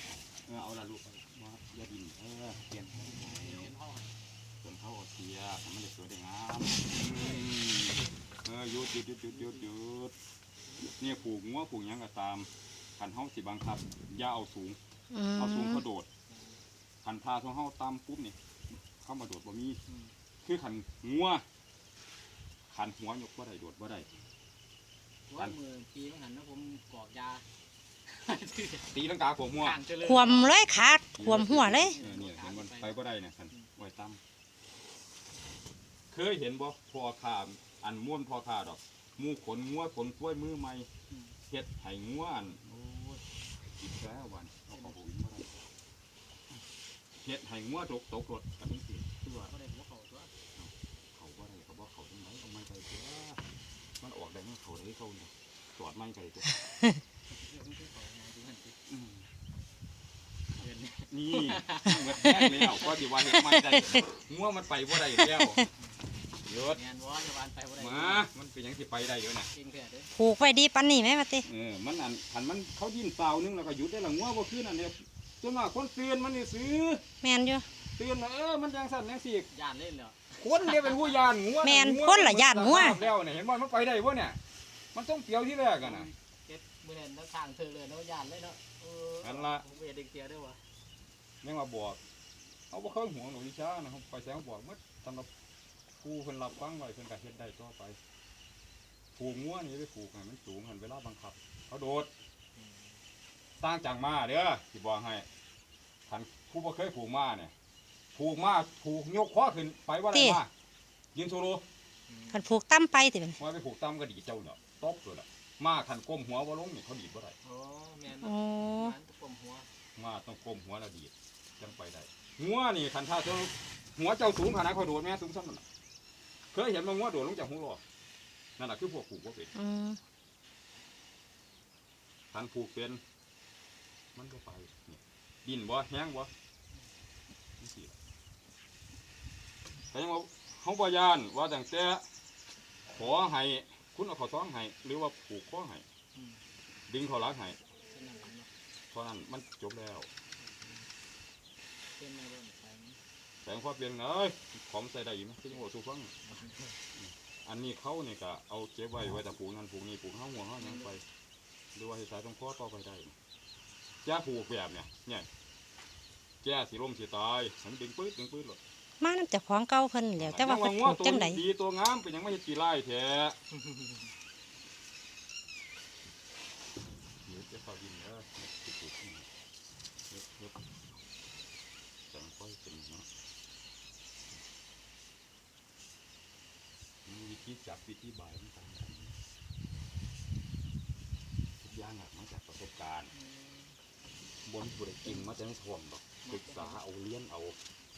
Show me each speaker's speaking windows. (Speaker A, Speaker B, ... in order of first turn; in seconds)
Speaker A: 0.4-3.7, 4.6-10.1, 10.8-14.8, 15.3-16.1, 17.0-19.8, 20.4-21.4, 22.7-24.1, 28.9-29.8, 31.2-34.2, 36.1-40.9, 41.5-43.2, 43.8-45.5, 47.2-49.5, 50.6-53.4, 54.0-56.6, 58.9-59.3, 61.1-65.7, 66.5-66.8, 67.8-69.5, 71.4-77.0, 78.0-79.5, 80.3-84.4, 84.9-86.1, 89.2-89.7, 91.4-92.0, 92.7-95.3, 96.0-98.0, 99.2-102.1, 103.6-105.3, 106.1-107.5, 108.1-110.5, 111.1-111.6, 113.4-117.4, 120.0-125.7, 126.5-127.8, 128.6-129.6, 132.3-133.0, 134.2-136.3, 137.6-138.0, 139.9-142.1, 142.9-145.8, 146.9-147.6, 148.9-150.1, 153.4-156.1, 157.0-161.0, 161.8-163.1, 164.0-165.3, 166.4-168.6, 170.2-173.4, 177.2-179.3, 180.1-180.6, 182.1-183.1, 187.1-189.2, 191.6-193.1, 194.4-197.6
Speaker B: 2.9-4.2, 7.1-7.5, 9.4-9.7, 16.3-16.6, 19.9-20.1, 25.3-27.5, 28.1-28.9, 29.6-30.6, 31.8-33.0, 41.1-41.4, 49.4-50.3, 57.3-58.8, 60.6-62.9, 66.7-68.3, 69.5-70.1, 79.5-81.2, 85.6-90.6, 102.6-102.9, 112.1-112.5, 117.4-119.7, 146.2-146.4, 147.9-148.5, 150.4-150.8, 152.0-153.0, 156.2-156.8, 160.6-160.9, 193.1-193.8, 196.2-196.8
Speaker C: 15.1-15.8, 30.0-32.0, 63.3-64.0, 70.2-71.5, 77.2-77.7, 81.6-83.0, 110.1-110.4, 112.3-113.4, 118.1-119.0, 129.6-130.0, 169.0-171.4